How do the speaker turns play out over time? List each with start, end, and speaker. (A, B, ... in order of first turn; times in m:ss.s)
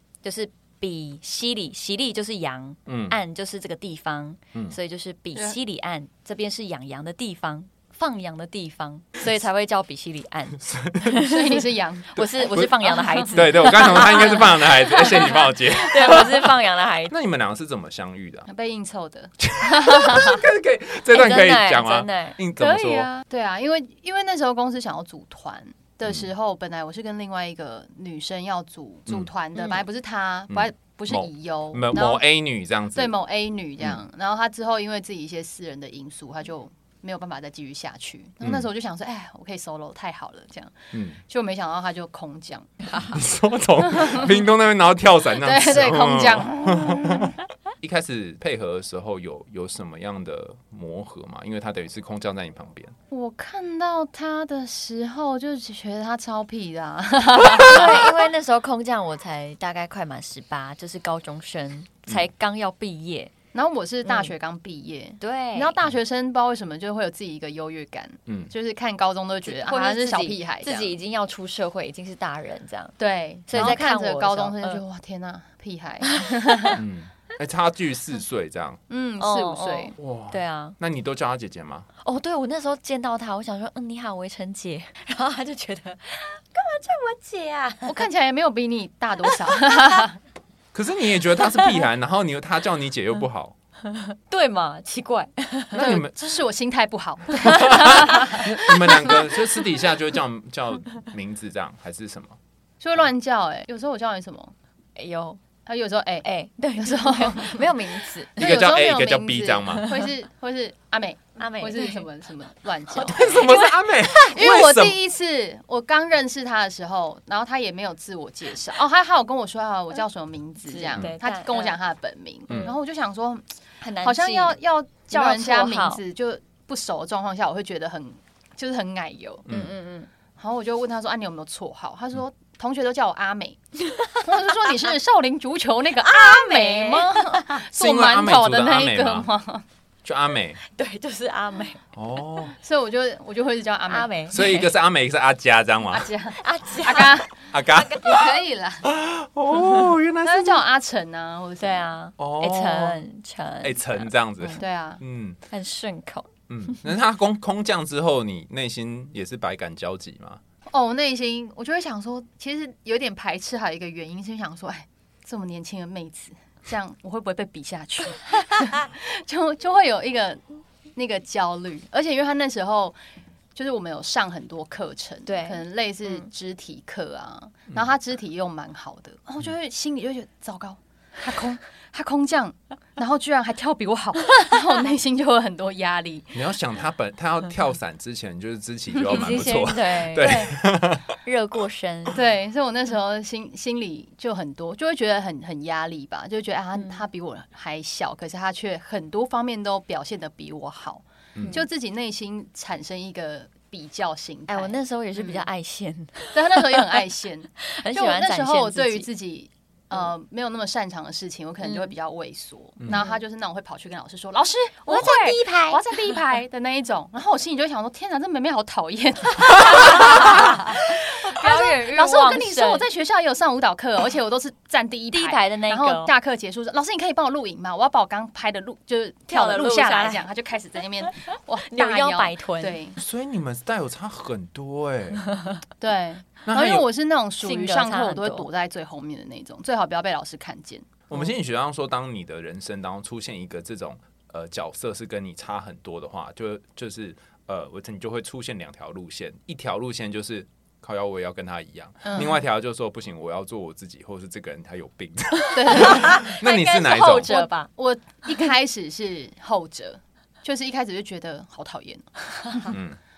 0:00.2-0:11.6 A
0:02.9-0:03.2 B
0:10.7-0:11.1 B
0:11.2-0:12.2 C
0:12.1-0:17.1 A
0:12.2-0:16.6 B
0:17.1-0:18.5 B
0:18.5-0:20.4 C
0:19.4-0:23.1 B
0:21.1-0:22.4 A
0:22.6-0:32.3 C
0:29.6-0:29.8 A
0:30.5-0:33.1 B
0:32.9-0:42.8 C
0:38.4-0:38.7 B
0:40.9-0:41.2 B
0:42.8-0:43.2 A
0:43.1-0:53.0 B
0:43.9-0:44.3 C
0:45.4-0:47.2 C
0:53.1-0:58.2 C
0:57.6-1:03.3 A
1:03.5-1:11.0 C
1:04.0-1:04.3 A
1:05.2-1:05.8 A
1:09.5-1:13.0 A
1:13.0-1:16.8 C
1:13.5-1:14.8 A
1:16.0-1:16.8 A
1:16.8-1:18.8 B
1:18.9-1:20.0 C
1:19.2-1:20.8 A
1:20.0-1:21.9 B
1:22.0-1:28.1 A
1:27.8-1:30.2 C
1:29.2-1:30.0 A
1:30.7-1:33.6 B
1:33.9-1:35.8 A
1:35.8-1:36.1 B
1:35.8-1:39.2 C
1:37.4-1:42.4 B
1:37.6-1:38.0 A
1:42.8-1:44.5 C
1:45.0-1:45.4 A
1:45.7-1:46.3 C
1:46.2-1:48.4 A
1:46.8-1:47.7 C
1:48.4-1:53.4 C
1:48.4-1:50.0 B
1:51.4-1:52.0 A
1:52.9-1:54.3 A
1:53.1-1:55.0 B
1:54.3-2:03.5 C
2:00.6-2:01.8 A
2:03.8-2:04.6 A
2:04.0-2:09.5 C
2:05.1-2:06.0 A
2:09.5-2:09.7 B
2:09.5-2:10.1 A
2:10.4-2:13.6 C
2:13.8-2:14.9 A
2:14.2-2:19.6 C
2:16.0-2:17.6 A
2:17.7-2:19.3 B
2:20.0-2:20.6 B
2:20.6-2:21.8 A
2:22.0-2:22.6 B
2:22.6-2:24.1 C
2:23.9-2:24.7 A
2:24.3-2:26.1 B
2:25.9-2:28.9 C
2:26.4-2:28.2 A
2:27.5-2:30.6 B
2:29.6-2:29.9 A
2:30.2-2:31.9 C
2:31.6-2:34.6 A
2:32.2-2:33.0 B
2:33.6-2:35.4 B
2:34.5-2:35.0 C
2:35.5-2:36.3 A
2:36.5-2:40.4 B
2:40.7-2:50.4 C
2:51.0-2:53.0 C
2:53.6-3:06.4 C
2:55.3-2:56.3 A
3:06.3-3:11.1 B
3:09.0-3:09.3 C
3:09.1-3:10.5 A
3:10.2-3:10.5 C
3:11.2-3:12.2 A
3:12.1-3:25.4 C
3:21.4-3:21.6 B
3:21.4-3:21.6 A
3:24.5-3:27.0 A
3:26.3-3:53.0 C
3:27.6-3:29.1 A
3:31.6-3:31.9 A
3:32.9-3:33.2 A
3:34.9-3:36.2 A
3:39.8-3:42.8 A
3:45.1-3:46.1 A
3:49.3-3:50.3 A
3:51.0-3:52.8 A
3:53.0-3:55.2 B
3:55.3-3:55.6 A
3:55.8-4:01.0 C
3:56.5-3:56.9 B
3:57.4-3:58.5 A
4:01.1-4:17.3 B
4:12.0-4:12.4 C
4:15.4-4:17.7 A
4:15.6-4:16.3 C
4:16.9-4:22.8 C
4:22.7-4:23.0 B